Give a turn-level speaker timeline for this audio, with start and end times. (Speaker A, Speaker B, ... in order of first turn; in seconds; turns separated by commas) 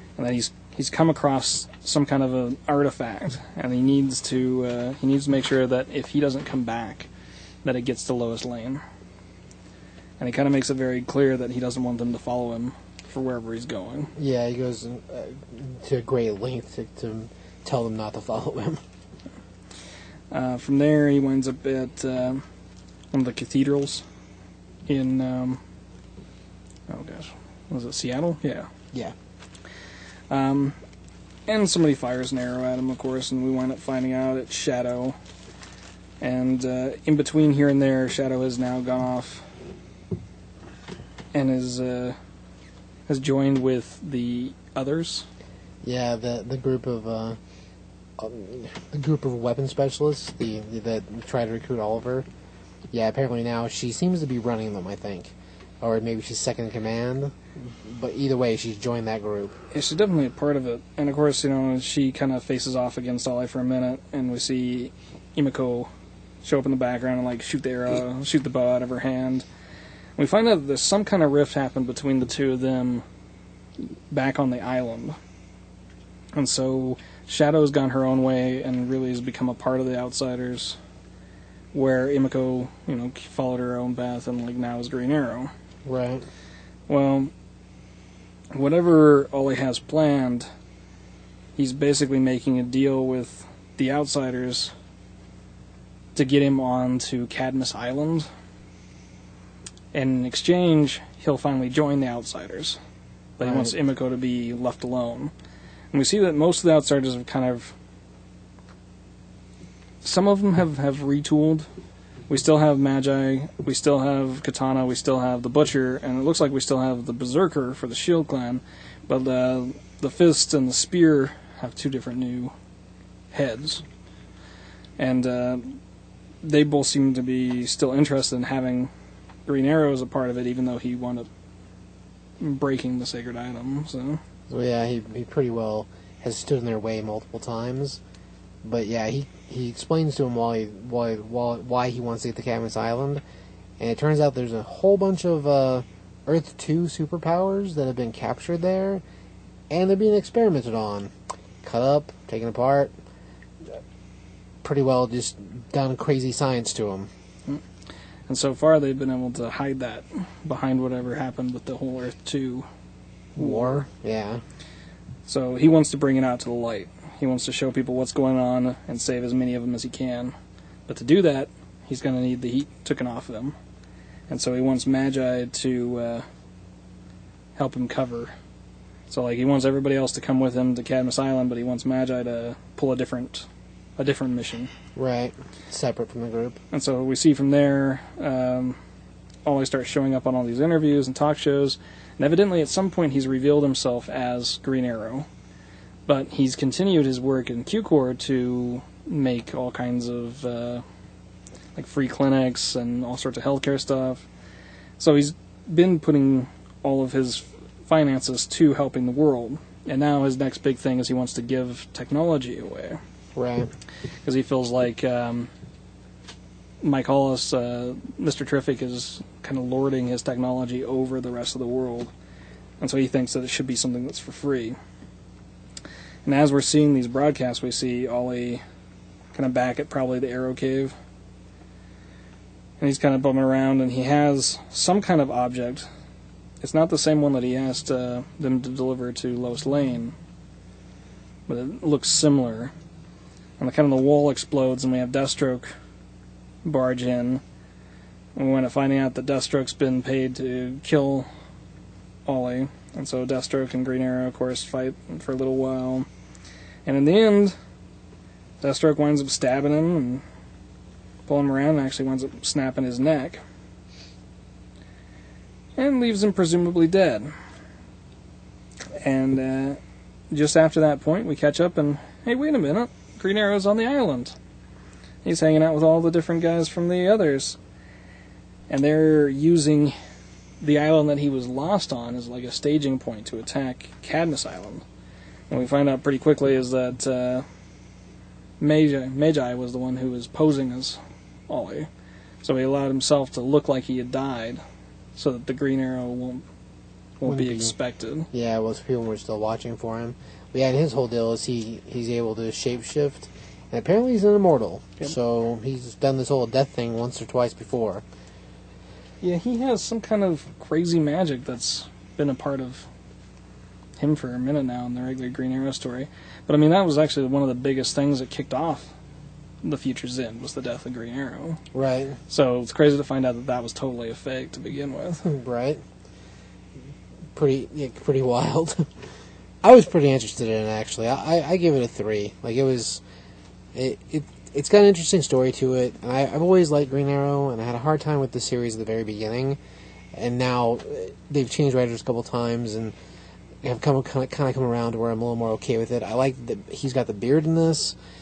Speaker A: 0.2-7.1, Speaker A: 7.6-8.8, Speaker A: 10.2-14.1, Speaker B: 14.2-18.8, Speaker A: 20.3-22.4, Speaker A: 23.1-24.0, Speaker A: 24.9-25.6, Speaker A: 26.9-28.7, Speaker A: 30.3-30.8, Speaker A: 31.5-35.1, Speaker A: 36.2-39.4, Speaker A: 41.3-42.1, Speaker A: 43.1-45.2, Speaker B: 45.8-47.4, Speaker B: 48.2-52.3, Speaker B: 52.9-59.5, Speaker A: 59.7-65.9, Speaker A: 66.4-69.4, Speaker A: 70.2-73.0, Speaker A: 74.1-75.2, Speaker A: 76.3-80.8, Speaker A: 81.7-85.5, Speaker B: 85.8-86.2, Speaker A: 86.9-87.3, Speaker A: 88.5-90.5, Speaker A: 91.6-94.7, Speaker A: 96.1-98.3, Speaker A: 99.9-102.8, Speaker A: 103.4-105.3, Speaker B: 103.4-103.7, Speaker A: 105.9-107.7, Speaker A: 110.0-111.7, Speaker A: 112.3-122.5, Speaker A: 123.3-123.8, Speaker A: 125.0-125.8, Speaker A: 126.4-128.9, Speaker A: 129.5-131.3, Speaker A: 132.4-134.2, Speaker B: 134.5-138.0, Speaker B: 138.6-143.2, Speaker B: 143.8-149.0, Speaker B: 149.7-151.1, Speaker B: 151.6-152.9, Speaker B: 154.6-157.1, Speaker A: 158.3-162.7, Speaker B: 163.3-164.4, Speaker A: 163.4-163.8, Speaker A: 165.2-170.3, Speaker A: 170.9-173.5, Speaker A: 174.3-176.2, Speaker A: 177.6-178.3, Speaker A: 179.1-183.5, Speaker A: 184.0-184.7, Speaker B: 184.9-186.6, Speaker A: 186.7-188.8, Speaker A: 189.4-195.3, Speaker A: 196.1-200.8, Speaker A: 201.8-204.2, Speaker A: 205.0-213.0, Speaker B: 213.3-213.7, Speaker A: 214.2-215.5, Speaker A: 216.8-222.1, Speaker A: 222.8-224.8, Speaker A: 226.2-228.6, Speaker A: 229.3-230.9, Speaker A: 232.8-235.9, Speaker A: 236.6-240.1, Speaker A: 241.5-242.7, Speaker A: 243.6-245.7, Speaker A: 246.6-247.4, Speaker A: 248.3-251.3, Speaker A: 252.2-256.1, Speaker A: 256.9-257.5, Speaker A: 258.6-260.2, Speaker A: 261.3-263.4, Speaker A: 265.8-267.3, Speaker A: 269.0-269.8, Speaker A: 270.3-274.3, Speaker A: 275.2-277.6, Speaker A: 278.7-279.9, Speaker A: 280.6-284.8, Speaker A: 285.5-287.4, Speaker A: 288.6-291.0, Speaker A: 291.5-291.9, Speaker A: 292.4-294.6, Speaker A: 295.1-296.4, Speaker A: 297.2-298.3, Speaker B: 297.2-297.7, Speaker B: 298.3-308.0, Speaker A: 309.2-312.9, Speaker A: 314.0-318.9, Speaker A: 319.6-321.6, Speaker B: 321.7-322.2, Speaker A: 322.3-325.2, Speaker B: 325.2-325.8, Speaker B: 327.3-328.9, Speaker B: 329.6-333.0, Speaker B: 333.7-339.6, Speaker B: 340.1-342.9, Speaker B: 343.6-348.0